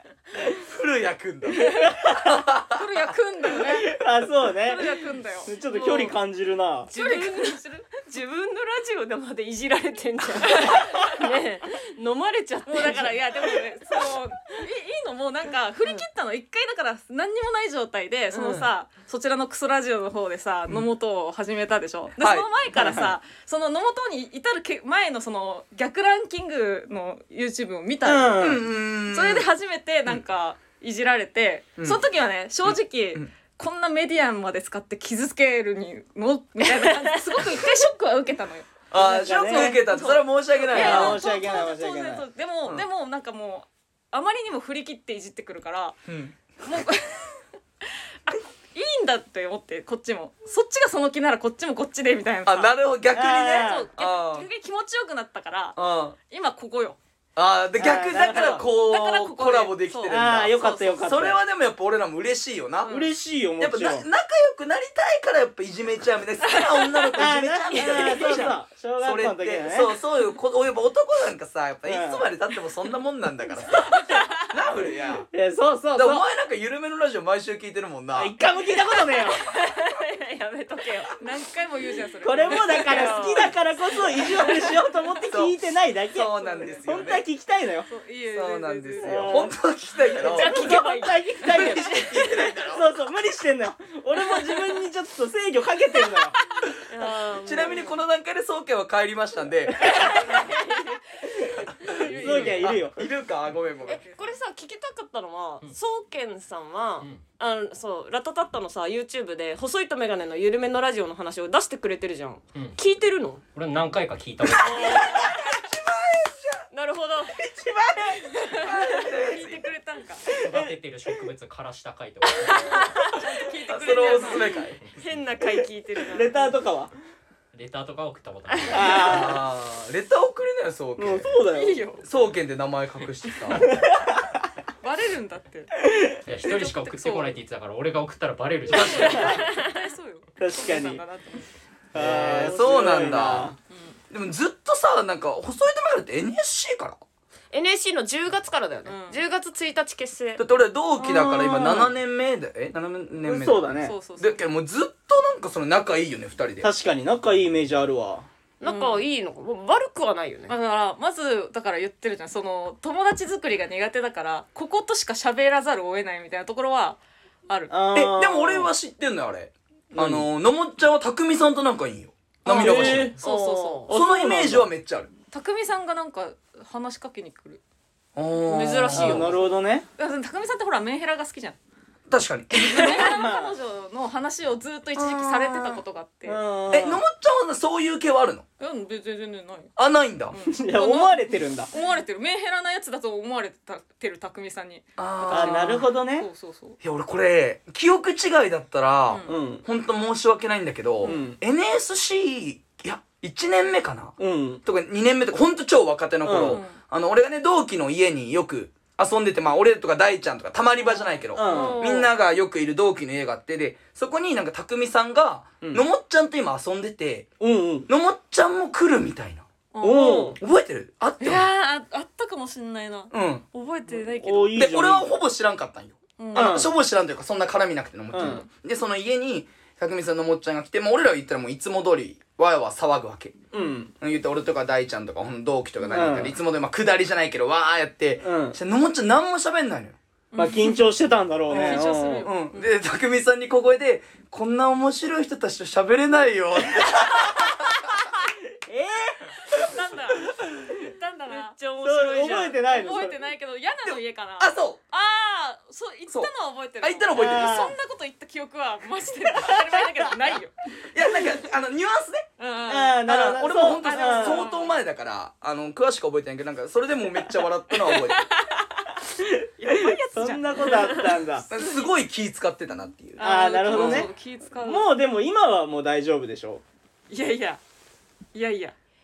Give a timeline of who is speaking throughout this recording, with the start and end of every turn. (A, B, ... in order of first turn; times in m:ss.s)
0:00.5-0:02.8 A
0:01.6-0:01.9 B
0:01.8-0:02.3 C
0:02.7-0:06.2 B
0:03.6-0:04.9 C
0:05.4-0:06.9 C
0:06.9-0:14.1 D
0:06.9-0:07.9 B
0:10.6-0:10.9 B
0:12.6-0:38.7 B
0:18.3-0:18.7 D
0:22.2-0:22.5 A
0:22.7-0:23.2 C
0:28.0-0:28.6 C
0:28.4-0:29.5 A
0:31.8-0:32.0 A
0:32.6-0:33.3 A
0:36.8-0:37.6 D
0:38.9-0:41.2 A
0:38.9-0:39.9 C
0:39.2-0:46.0 B
0:40.7-0:42.2 C
0:40.8-0:41.6 D
0:46.1-0:46.3 A
0:46.6-0:47.4 B
0:48.3-0:52.7 B
0:52.4-0:54.5 A
0:53.1-0:53.9 C
0:53.5-0:57.0 B
0:55.8-0:56.2 A
0:57.4-1:03.0 A
0:57.8-0:58.6 C
0:58.7-1:01.1 B
1:00.1-1:01.4 C
1:02.8-1:03.1 B
1:02.8-1:04.0 C
1:03.6-1:15.3 A
1:06.5-1:07.0 B
1:07.1-1:09.9 C
1:11.8-1:12.2 C
1:15.3-1:16.2 C
1:15.9-1:18.3 A
1:18.1-1:19.4 C
1:19.2-1:21.1 D
1:21.2-1:23.5 B
1:22.2-1:27.9 C
1:22.3-1:23.5 D
1:24.1-1:24.9 B
1:25.3-1:25.6 A
1:26.1-1:27.2 A
1:26.6-1:26.9 B
1:27.9-1:29.5 B
1:28.3-1:30.7 A
1:29.0-1:29.5 C
1:30.2-1:32.0 C
1:30.2-1:32.1 D
1:31.5-1:32.8 A
1:32.6-1:36.4 C
1:36.9-1:37.9 D
1:37.3-1:40.4 A
1:39.9-1:41.0 D
1:41.4-1:43.0 C
1:42.0-1:42.7 B
1:42.0-1:42.7 E
1:42.2-1:44.0 A
1:43.4-1:44.3 B
1:43.8-1:53.4 D
1:53.5-1:55.1 E
1:54.4-1:55.4 D
1:54.7-1:56.7 A
1:56.7-1:57.4 D
1:57.4-1:59.7 A
1:57.8-1:58.2 C
1:58.4-2:00.3 B
2:00.3-2:00.8 C
2:00.4-2:03.1 E
2:02.5-2:04.6 B
2:03.7-2:04.8 A
2:04.8-2:05.2 E
2:05.0-2:06.5 D
2:06.1-2:06.9 C
2:07.5-2:09.3 E
2:08.5-2:09.0 D
2:08.7-2:09.4 C
2:09.0-2:11.4 A
2:11.0-2:11.8 C
2:11.5-2:12.0 B
2:12.0-2:13.7 A
2:13.6-2:14.3 C
2:14.8-2:15.8 B
2:16.3-2:19.5 E
2:16.4-2:17.4 B
2:18.7-2:19.1 A
2:18.7-2:19.4 C
2:18.8-2:21.5 B
2:19.4-2:19.7 D
2:20.4-2:21.0 C
2:21.9-2:23.6 C
2:21.9-2:23.5 A
2:22.2-2:23.2 D
2:23.7-2:24.0 B
2:24.1-2:27.0 A
2:27.5-2:30.5 D
2:28.8-2:29.2 B
2:30.4-2:36.7 A
2:31.0-2:31.9 C
2:33.2-2:34.0 C
2:33.8-2:34.4 B
2:36.6-2:38.3 C
2:38.6-2:40.5 D
2:38.6-2:39.0 B
2:40.5-2:47.7 B
2:47.7-2:48.7 C
2:47.9-2:53.2 A
2:49.9-2:50.3 C
2:52.4-2:53.2 C
2:52.6-2:53.9 B
2:53.2-2:53.9 D
2:53.9-2:54.7 C
2:53.9-2:55.1 A
2:55.3-2:57.6 B
2:58.2-2:59.3 A
2:58.4-2:59.4 D
2:58.9-2:59.8 C
3:00.0-3:01.6 B
3:02.1-3:03.0 A
3:02.5-3:06.4 B
3:02.6-3:03.0 D
3:03.0-3:03.6 C
3:05.0-3:05.8 D
3:06.2-3:07.0 C
3:06.7-3:08.4 A
3:08.6-3:09.7 B
3:09.8-3:10.4 A
3:10.3-3:16.8 B
3:10.5-3:11.7 C
3:15.0-3:15.8 A
3:15.3-3:16.3 C
3:16.8-3:37.3 A
3:19.1-3:19.4 B
3:19.2-3:19.6 C
3:21.0-3:21.3 B
3:21.0-3:21.4 C
3:24.2-3:24.6 C
3:26.2-3:26.6 C
3:26.4-3:26.8 B
3:30.8-3:31.6 B
3:31.3-3:32.0 C
3:31.4-3:32.1 D
3:37.4-3:37.9 C
3:37.9-3:39.4 A
3:39.7-3:40.4 B
3:39.8-3:40.4 C
3:39.9-3:40.4 D
3:40.4-3:41.5 A
3:41.2-3:44.7 B
3:43.1-3:43.4 A
3:44.2-3:45.2 C
3:44.5-3:53.4 A
3:46.2-3:46.7 B
3:46.3-3:46.7 C
3:48.1-3:48.4 C
3:48.1-3:48.5 B
3:53.5-3:53.9 C
3:54.0-4:00.0 A
3:55.9-3:56.3 C
3:58.2-3:58.6 C
4:00.3-4:01.0 B
4:00.4-4:02.3 C
4:01.5-4:02.7 B
4:01.5-4:07.7 A
4:08.6-4:09.3 C
4:09.7-4:10.2 B
4:09.7-4:10.2 D
4:11.0-4:12.6 D
4:11.0-4:11.5 B
4:11.8-4:13.2 C
4:12.5-4:20.6 B
4:13.8-4:14.8 A
4:16.1-4:17.7 A
4:17.1-4:17.7 C
4:20.9-4:22.3 A
4:22.4-4:24.8 B
4:22.7-4:24.5 C
4:23.0-4:28.3 A
4:27.8-4:28.7 B
4:29.2-4:31.4 C
4:29.6-4:31.9 B
4:31.5-4:34.1 A
4:33.2-4:34.9 B
4:33.2-4:34.1 C
4:34.6-4:36.6 C
4:37.1-4:37.6 B
4:38.3-4:38.7 B